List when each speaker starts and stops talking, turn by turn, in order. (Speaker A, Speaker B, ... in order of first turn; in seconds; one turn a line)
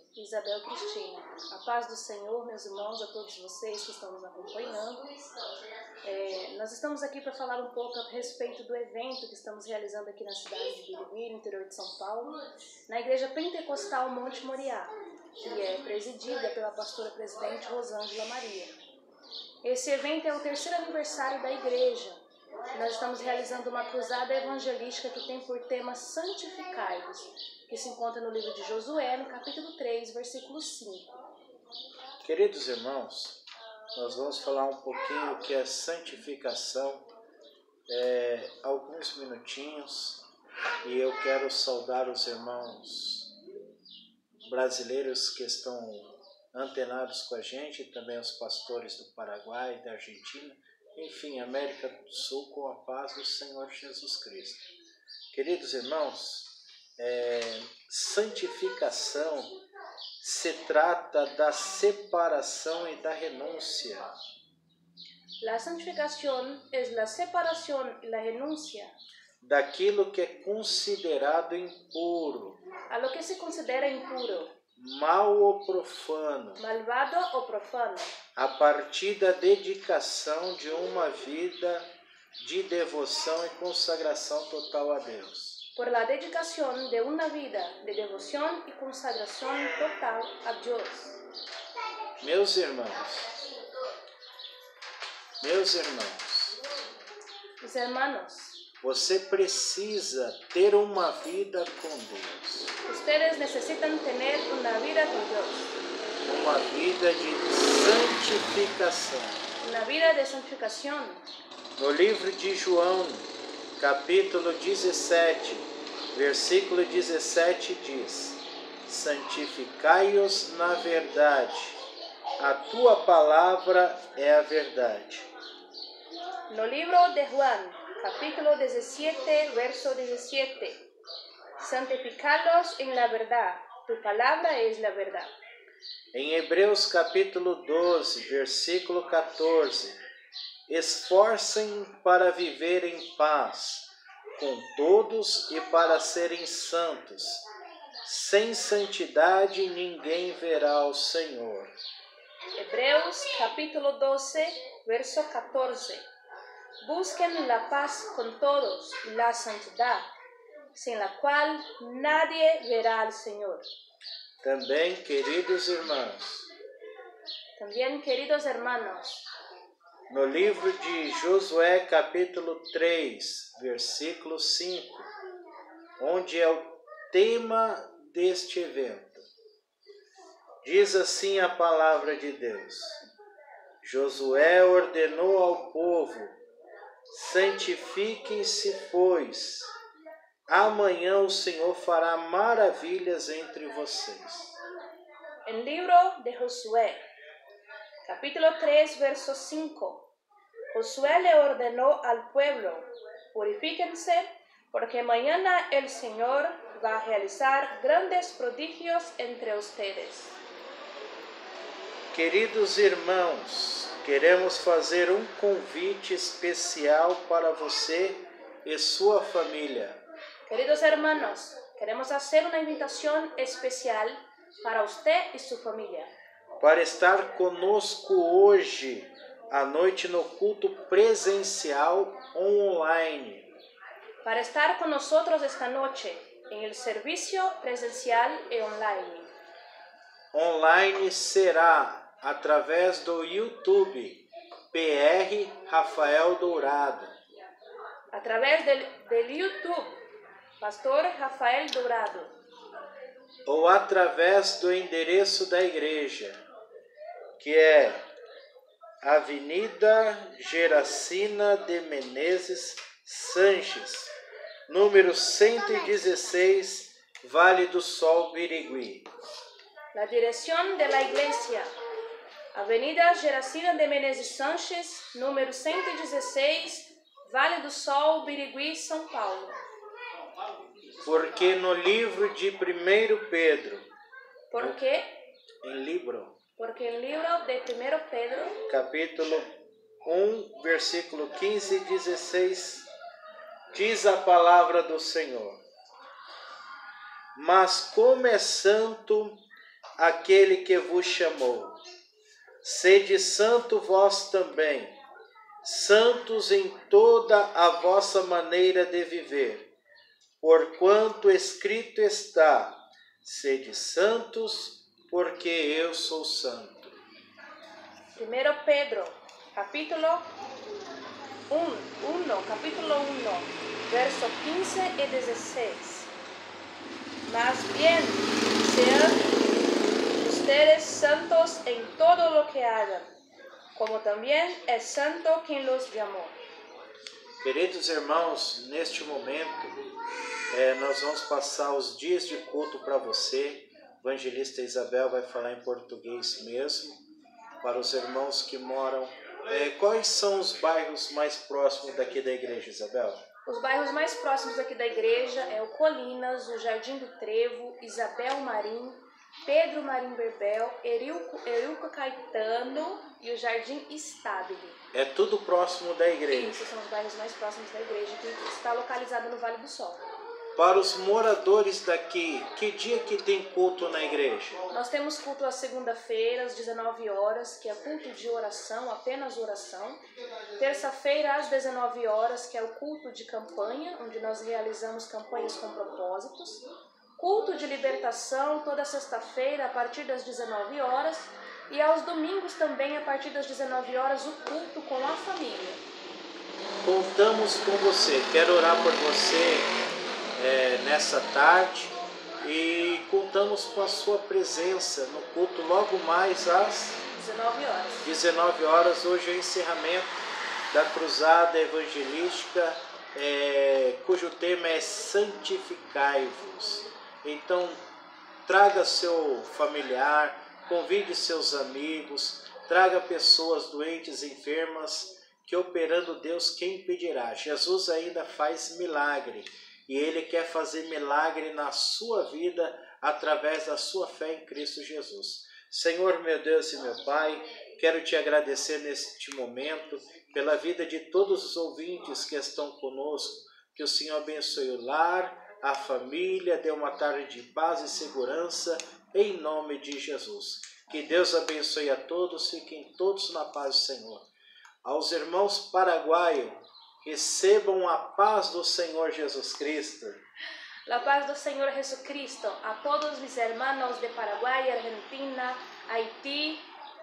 Speaker A: 0.1-5.1
Speaker A: 6.0-18.8
Speaker A: 19.6-31.1
Speaker B: 32.2-33.4
Speaker B: 33.9-37.1
Speaker B: 37.9-40.2
Speaker B: 40.8-43.3
Speaker B: 44.4-54.6
Speaker B: 55.3-59.5
Speaker B: 60.2-64.1
Speaker A: 65.4-68.9
Speaker B: 69.4-72.6
Speaker A: 72.9-74.6
Speaker B: 74.7-76.6
Speaker A: 76.6-78.2
Speaker B: 78.3-85.6
Speaker A: 85.8-91.2
Speaker B: 92.2-93.3
Speaker B: 95.4-96.6
Speaker A: 97.6-98.6
Speaker B: 98.8-102.7
Speaker A: 102.8-105.8
Speaker B: 106.2-109.4
Speaker A: 109.6-111.2
Speaker B: 111.8-121.8
Speaker B: 122.4-125.3
Speaker A: 126.5-130.8
Speaker A: 131.6-135.3
Speaker B: 136.1-140.0
Speaker B: 140.7-147.4
Speaker B: 148.0-151.7
Speaker A: 152.6-156.1
Speaker A: 156.8-160.1
Speaker A: 160.7-163.6
Speaker B: 164.4-166.5
Speaker A: 167.6-169.2
Speaker B: 170.1-175.1
Speaker B: 176.0-179.3
Speaker B: 180.6-183.0
Speaker B: 183.8-186.4
Speaker B: 187.1-189.7
Speaker B: 190.5-194.6
Speaker A: 195.4-197.0
Speaker A: 198.0-200.1
Speaker A: 200.7-210.3
Speaker B: 212.1-220.0
Speaker A: 220.5-226.1
Speaker B: 226.6-233.5
Speaker A: 234.2-239.3
Speaker B: 240.3-247.2
Speaker A: 248.1-250.0
Speaker A: 250.6-252.3
Speaker B: 253.4-256.4
Speaker B: 257.4-258.0
Speaker B: 259.0-264.1
Speaker B: 264.7-269.1
Speaker A: 269.9-271.7
Speaker A: 272.5-279.6
Speaker B: 281.0-283.9
Speaker A: 284.5-285.1
Speaker B: 285.6-286.4
Speaker A: 286.6-288.6
Speaker B: 288.6-289.5
Speaker B: 290.0-292.9
Speaker B: 293.7-295.6
Speaker B: 297.3-299.4
Speaker B: 300.0-301.8
Speaker B: 302.6-304.9
Speaker B: 305.6-309.7
Speaker B: 310.4-317.0
Speaker A: 318.1-320.3
Speaker A: 321.5-326.1
Speaker A: 327.2-329.3
Speaker A: 330.1-333.1
Speaker A: 333.7-336.4
Speaker B: 337.4-339.8
Speaker B: 340.5-347.0
Speaker B: 347.6-353.2
Speaker A: 353.4-364.8
Speaker B: 364.9-366.7
Speaker A: 366.3-370.0
Speaker B: 370.6-374.6
Speaker A: 374.7-380.0
Speaker A: 380.6-386.6
Speaker A: 387.2-395.8
Speaker B: 396.8-399.7
Speaker B: 400.4-407.0
Speaker A: 407.1-408.1
Speaker B: 408.0-410.1
Speaker B: 410.7-417.8
Speaker B: 418.4-454.3
Speaker B: 454.8-460.2
Speaker A: 460.9-466.7